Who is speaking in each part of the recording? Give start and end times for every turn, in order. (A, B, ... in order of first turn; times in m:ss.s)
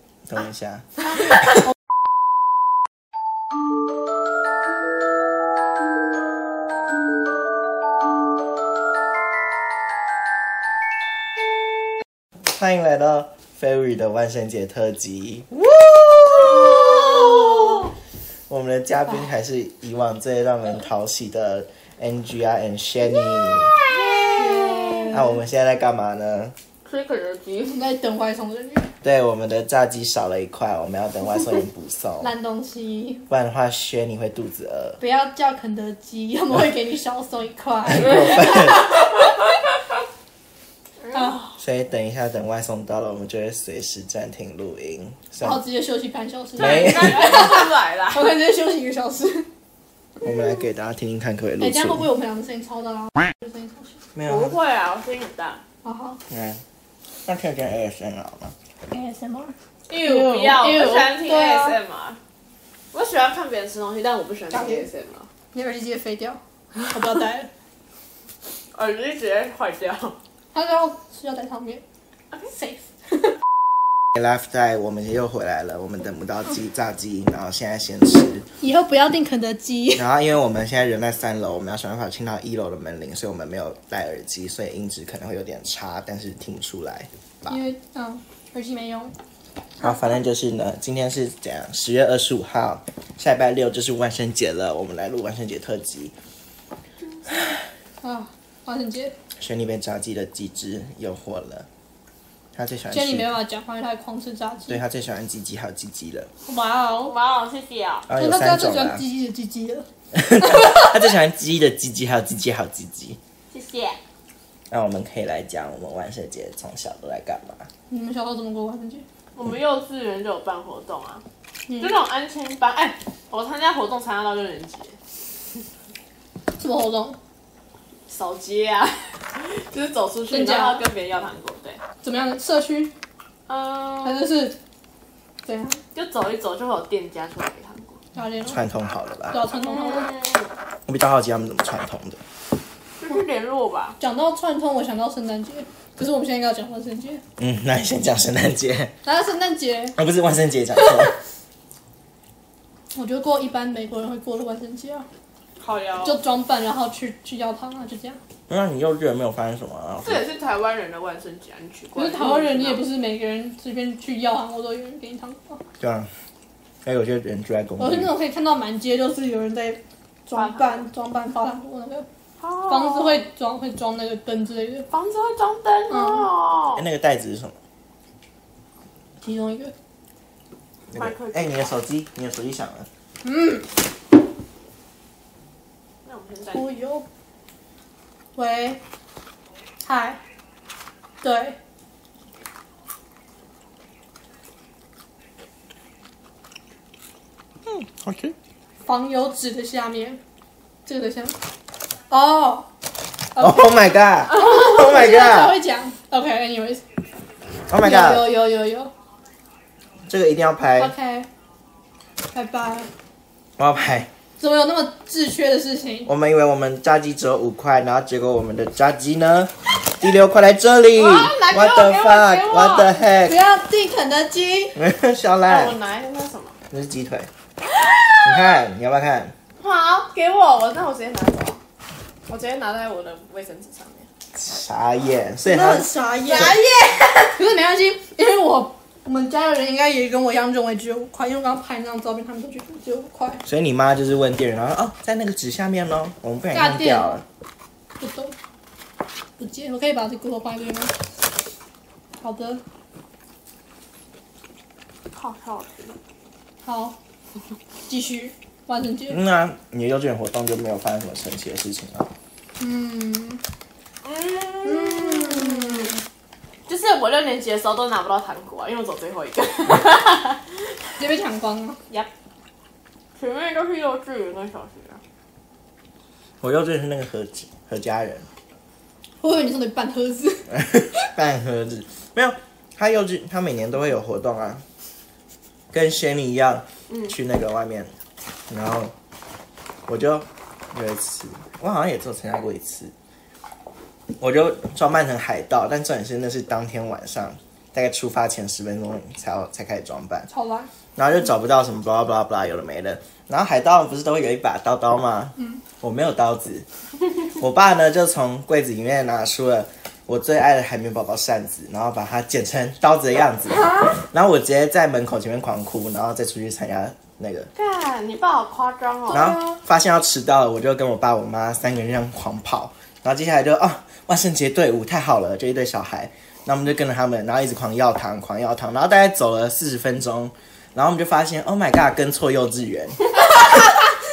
0:00.3-0:00.9 A
0:12.5-0:17.8 A
0:16.6-0:17.5 B
0:18.5-0:23.7 A
0:23.7-0:25.2 B
0:23.9-0:25.4 C
0:25.1-0:26.6 A
0:26.9-0:27.9 B
0:27.8-0:28.9 C
0:29.0-0:32.3 A
0:32.2-0:33.3 C
0:33.3-0:35.0 A
0:35.0-0:39.2 C
0:37.9-0:38.9 A
0:41.1-0:41.6 C
0:41.6-0:45.6 A
0:45.4-0:49.5 C
0:46.6-0:48.3 B
0:46.6-0:47.3 A
0:50.2-0:52.1 A
0:51.6-0:54.0 C
0:54.2-0:54.6 A
0:54.3-0:55.6 B
0:55.8-0:56.2 C
0:56.3-0:56.6 A
0:57.3-0:58.5 A
0:58.9-1:01.8 C
0:59.9-1:02.2 B
1:02.9-1:05.3 B
1:04.5-1:04.9 C
1:05.5-1:07.5 C
1:08.7-1:10.2 B
1:10.5-1:11.8 C
1:12.5-1:12.8 C
1:14.2-1:18.4 A
1:18.6-1:20.0 C
1:20.0-1:27.6 A
1:27.5-1:29.1 C
1:29.8-1:36.1 A
1:38.0-1:39.2 C
1:39.4-1:41.7 A
1:42.5-1:43.3 A
1:42.9-1:44.8 C
1:44.7-1:46.3 A
1:46.4-1:47.2 C
1:47.0-1:48.1 B
1:48.1-1:49.0 A
1:48.2-1:49.9 C
1:50.1-1:53.2 A
1:50.4-1:50.9 C
1:53.5-1:54.0 B
1:54.7-1:57.7 A
1:57.9-1:59.0 C
1:59.4-2:01.2 B
2:01.7-2:02.0 C
2:01.8-2:05.0 B
2:06.6-2:07.2 C
2:08.1-2:11.8 B
2:10.3-2:10.9 C
2:12.0-2:12.9 C
2:13.5-2:14.3 B
2:14.0-2:14.6 C
2:15.4-2:15.8 C
2:15.9-2:18.0 B
2:18.1-2:18.6 C
2:18.5-2:19.4 A
2:19.3-2:20.1 C
2:19.5-2:20.5 B
2:20.9-2:22.2 A
2:23.0-2:24.0 B
2:24.0-2:27.2 C
2:27.4-2:28.9 A
2:29.0-2:30.0 C
2:30.0-2:31.2 A
2:32.9-2:35.1 C
2:35.6-2:36.2 B
2:36.0-2:38.2 C
2:38.5-2:40.2 A
2:40.0-2:42.8 B
2:42.0-2:45.6 C
2:45.8-2:46.1 A
2:46.8-2:48.1 A
2:47.8-2:52.1 C
2:50.3-2:50.9 B
2:52.4-2:53.3 B
2:52.7-2:54.9 C
2:54.9-2:56.8 B
2:55.9-2:56.3 C
2:56.8-2:57.6 A
2:59.2-2:59.7 C
3:00.9-3:02.9 A
3:00.9-3:01.8 B
3:03.2-3:03.7 C
3:06.0-3:06.7 B
3:06.5-3:07.1 C
3:08.4-3:08.8 C
3:09.8-3:10.2 C
3:11.2-3:11.6 C
3:17.6-3:18.4 A
3:18.8-3:20.2 C
3:20.9-3:21.4 C
3:22.1-3:22.7 C
3:23.3-3:26.8 C
3:23.4-3:25.6 A
3:27.7-3:28.3 A
3:27.7-3:28.9 C
3:30.1-3:30.9 A
3:30.8-3:31.3 C
3:32.3-3:32.9 C
3:33.6-3:34.1 A
3:34.4-3:36.1 C
3:36.1-3:43.4 A
3:41.0-3:42.9 B
3:43.2-3:44.8 C
3:44.8-3:45.8 A
3:45.5-3:46.6 B
3:46.7-3:47.3 A
3:47.6-3:48.6 B
3:48.2-3:49.4 A
3:49.6-3:51.6 B
3:52.3-3:54.1 B
3:54.4-3:56.5 A
3:55.4-3:56.6 C
3:56.2-3:57.4 B
3:57.4-4:03.4 C
4:03.4-4:07.2 A
4:06.5-4:07.2 C
4:08.0-4:08.4 C
4:09.4-4:10.9 C
4:12.2-4:12.6 C
4:15.1-4:16.0 B
4:16.6-4:17.0 C
4:17.9-4:19.2 C
4:19.1-4:22.1 A
4:22.6-4:23.4 C
4:24.0-4:26.0 B
4:24.6-4:26.0 C
4:26.7-4:30.7 B
4:31.0-4:31.8 C
4:33.2-4:35.0 B
4:36.4-4:38.3 A
4:39.2-4:40.7 C
4:40.5-4:44.6 A
4:45.7-4:47.9 A
4:46.9-4:47.2 B
4:48.5-4:48.9 A
4:49.9-4:52.9 A
4:54.2-5:00.3 A
5:00.3-5:00.7 C
5:01.0-5:06.7 A
5:05.4-5:05.6 C
5:07.4-5:17.5 A
5:13.6-5:13.9 C
5:17.6-5:19.5 B
5:19.1-5:19.6 C
5:19.1-5:33.2 A